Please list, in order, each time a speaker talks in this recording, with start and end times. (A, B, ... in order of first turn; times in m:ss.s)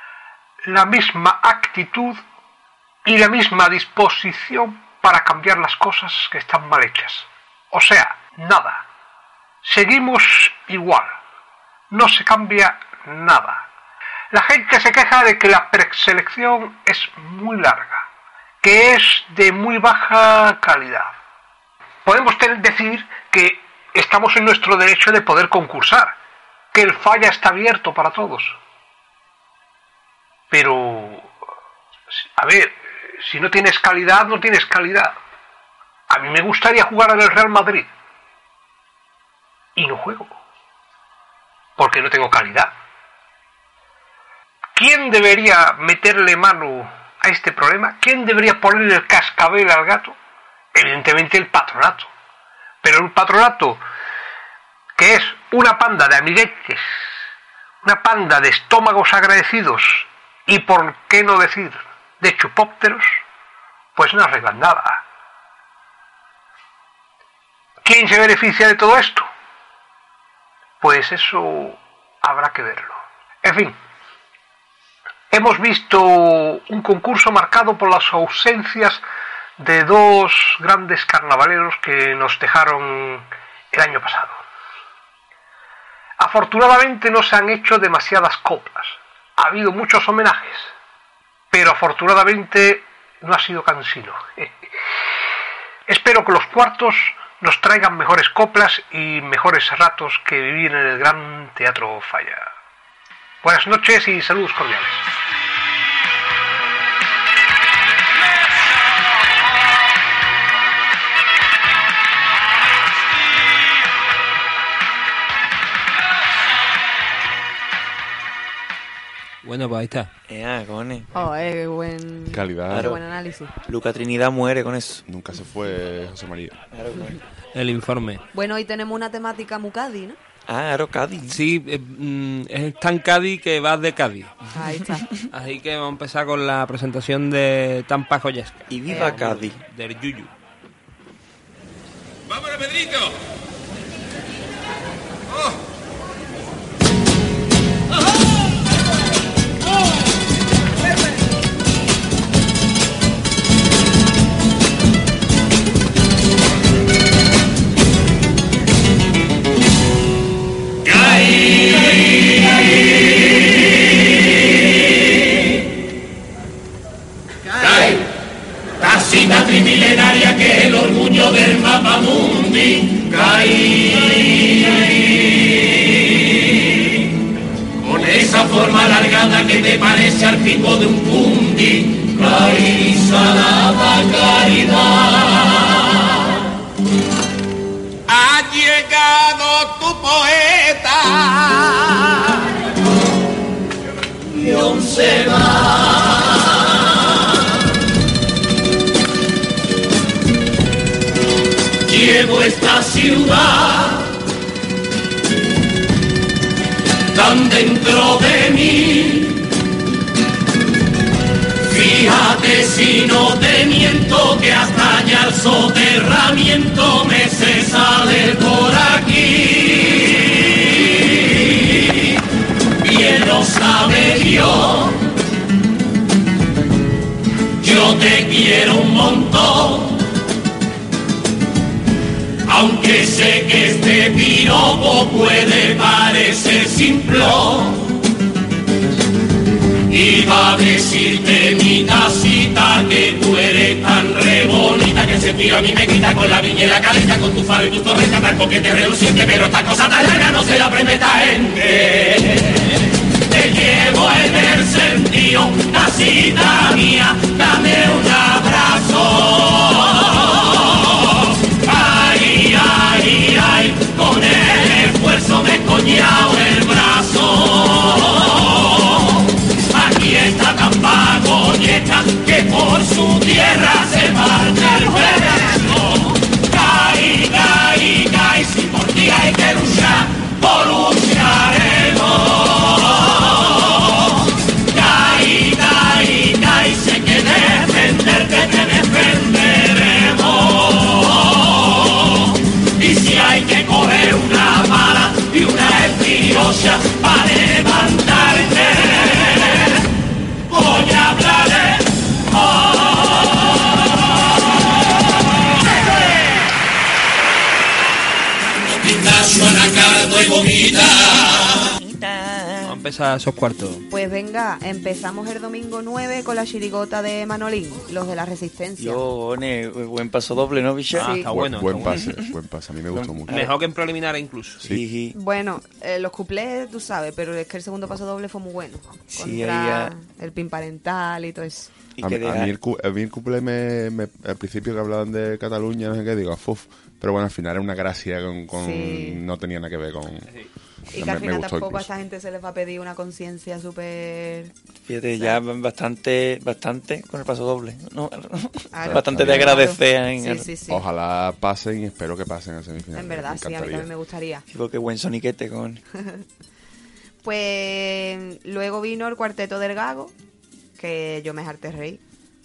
0:00.6-0:02.2 A
0:03.0-0:08.8 A
0:09.6-0:11.2 A
0:11.9-0:13.6 A
0:14.3-0:18.0 A
0:18.6-0:21.1 A
0:22.0-0:26.1 A
0:26.7-0:28.6 A
0:30.5-0:31.3 A
0:32.4-0:35.2 A
0:36.1-0:37.9 A
0:39.8-0:40.4 A
0:41.8-0:42.7 A
0:44.8-0:50.2 A
0:50.7-0:52.1 A
0:52.8-0:53.8 A
0:55.0-0:56.8 A
0:57.8-1:03.2 A
1:04.0-1:05.0 A
1:07.8-1:09.3 A
1:10.8-1:13.8 A
1:15.3-1:19.0 A
1:19.6-1:24.4 A
1:26.2-1:30.7 A
1:31.5-1:34.6 A
1:35.9-1:42.5 A
1:43.4-1:45.0 A
1:59.4-2:00.1 B
2:00.3-2:01.1 C
2:01.1-2:03.5 D
2:02.3-2:03.0 E
2:02.7-2:03.0 C
2:03.6-2:05.0 C
2:05.1-2:06.6 E
2:06.7-2:07.2 C
2:07.5-2:08.2 B
2:08.3-2:10.2 D
2:10.5-2:11.4 C
2:11.3-2:14.3 B
2:14.5-2:15.1 D
2:15.3-2:20.3 B
2:18.7-2:19.6 C
2:18.9-2:19.2 D
2:22.5-2:23.0 B
2:40.8-2:42.8 F
2:47.6-2:48.1 F
2:48.8-2:55.8 F
2:57.8-3:06.0 F
3:08.1-3:12.0 F
3:14.3-3:16.4 F
3:21.8-3:24.1 F
3:27.1-3:29.5 F
3:31.6-3:41.2 F
3:42.8-3:45.0 F
3:47.6-3:50.1 F
3:52.5-3:57.9 F
3:59.9-4:59.8 F
5:00.5-5:03.5 F
5:08.6-5:11.5 F
5:11.7-5:12.8 C
5:12.6-5:13.8 B
5:13.9-5:19.0 D
5:18.8-5:21.1 C
5:20.9-5:22.0 B
5:21.0-5:21.3 D
5:21.3-5:23.5 E
5:21.8-5:22.3 C
5:22.9-5:23.5 C
5:23.3-5:24.6 B
5:24.6-5:25.2 C
5:25.1-5:31.7 D
5:29.1-5:29.9 C
5:32.0-5:32.5 C
5:32.0-5:40.3 E
5:38.5-5:39.2 D
5:40.9-5:44.5 D
5:40.9-5:41.9 E
5:44.9-5:50.5 C
5:48.7-5:50.8 D
5:48.8-5:49.7 E
5:50.7-5:53.9 E
5:52.9-5:54.4 D
5:54.5-5:55.8 C
5:57.2-6:00.1 D
6:00.8-6:02.0 D